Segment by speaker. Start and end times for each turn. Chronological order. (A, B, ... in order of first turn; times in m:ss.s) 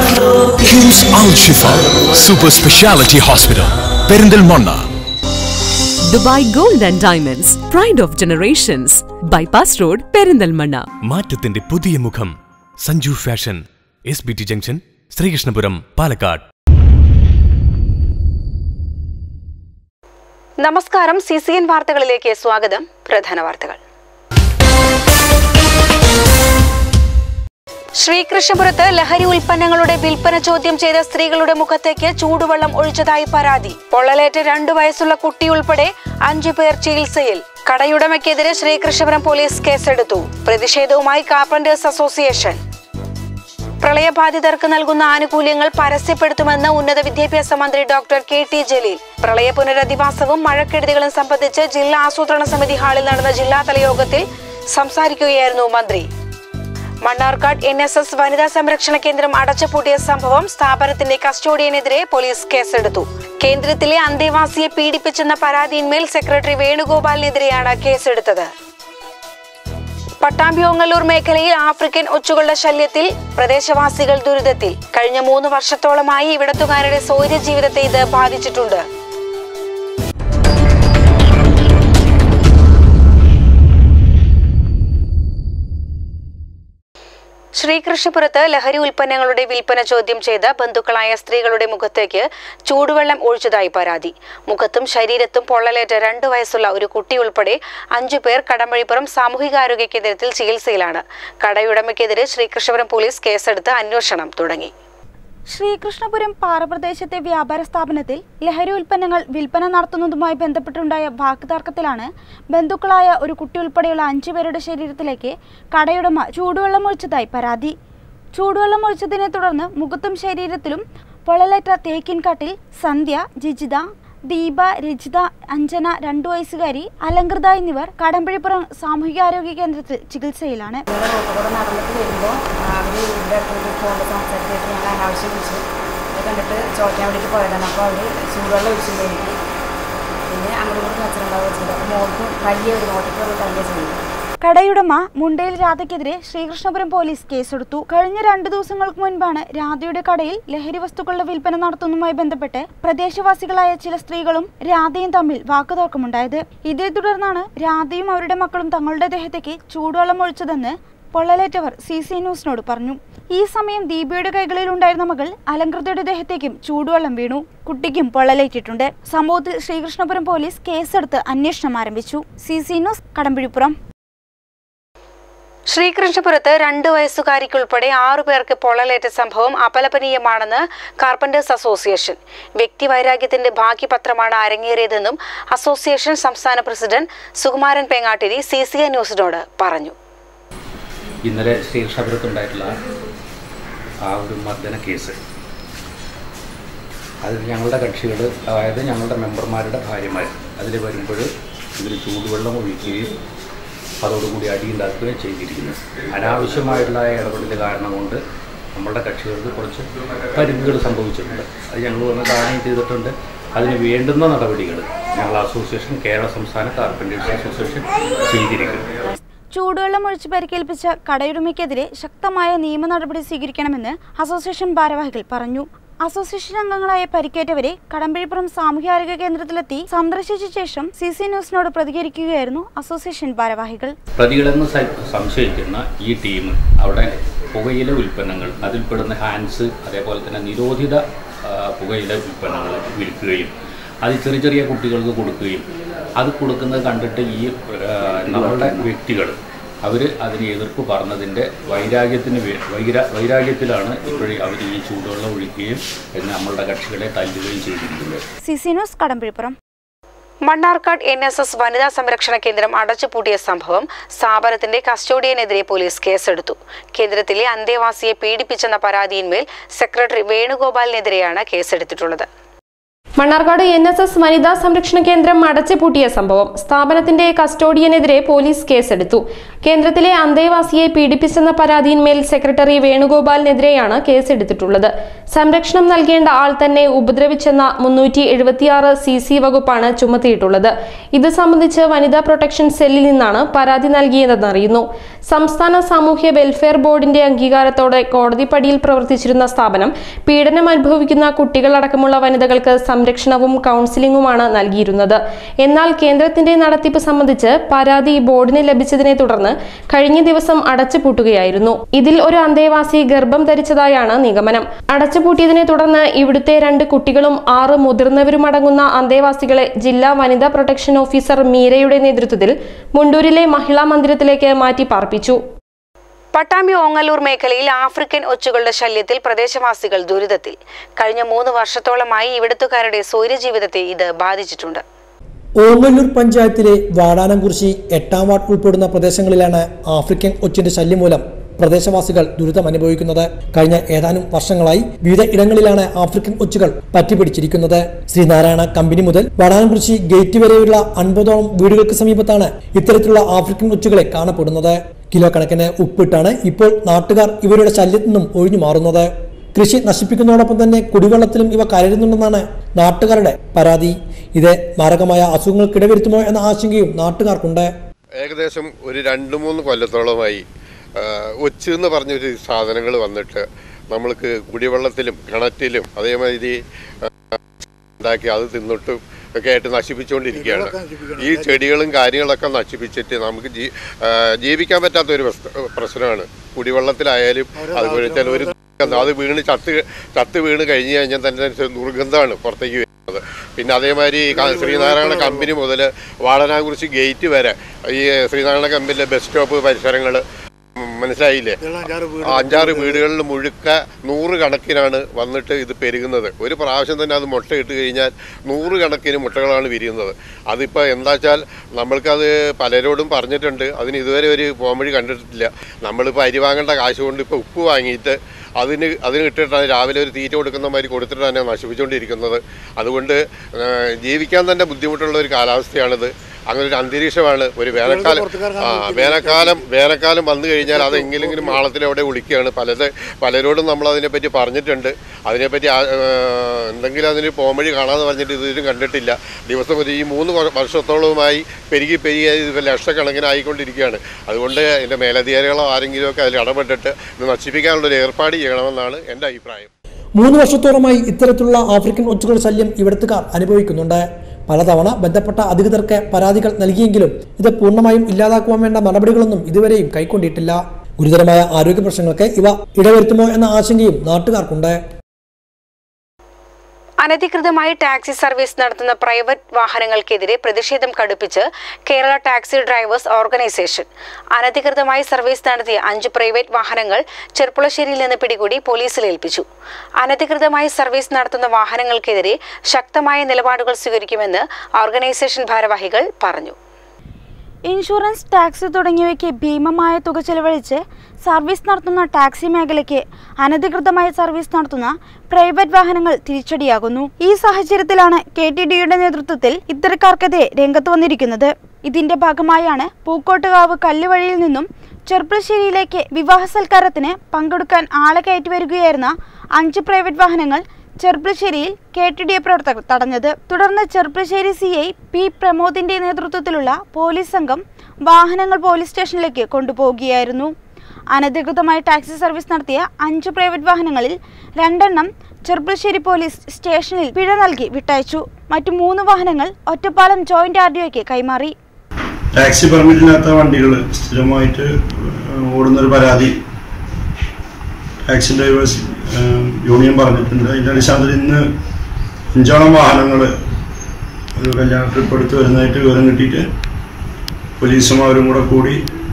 0:00.6-0:04.9 A
0:06.1-0:10.8 B
0:11.0-0:16.4 C
0:20.6-0:23.8 D
0:28.0-0:42.6 D
0:43.8-0:56.1 D
0:57.0-1:08.5 D
1:10.2-1:18.8 D
1:27.6-1:44.7 D
1:45.5-1:57.7 E
1:58.3-2:10.8 E
2:10.9-2:15.6 F
2:16.1-2:19.3 F
2:20.3-2:24.0 F
2:24.4-2:53.8 E
2:55.7-3:09.9 D
3:11.2-3:12.7 G
3:14.0-3:15.2 G
3:17.2-3:23.1 G
3:24.0-3:28.2 G
3:28.7-3:38.9 G
3:39.5-3:53.9 E
3:54.2-4:03.5 G
4:04.0-4:05.7 G
4:06.2-4:18.2 G
4:18.4-4:19.6 E
4:20.4-4:32.3 D
4:33.2-5:25.4 H
5:26.3-5:34.8 D
5:35.6-6:07.7 I
6:08.2-6:10.4 J
6:11.0-6:16.6 J
6:18.0-6:40.2 J
6:40.8-6:41.6 J
6:42.2-7:29.7 J
7:30.2-7:44.7 I
7:47.0-7:59.4 D
8:00.0-8:06.6 D
8:07.6-8:40.5 E
8:41.1-8:51.5 E
8:52.3-8:56.3 K
8:58.0-9:01.5 K
9:02.3-9:03.3 K
9:04.4-9:06.4 K
9:07.6-9:08.8 K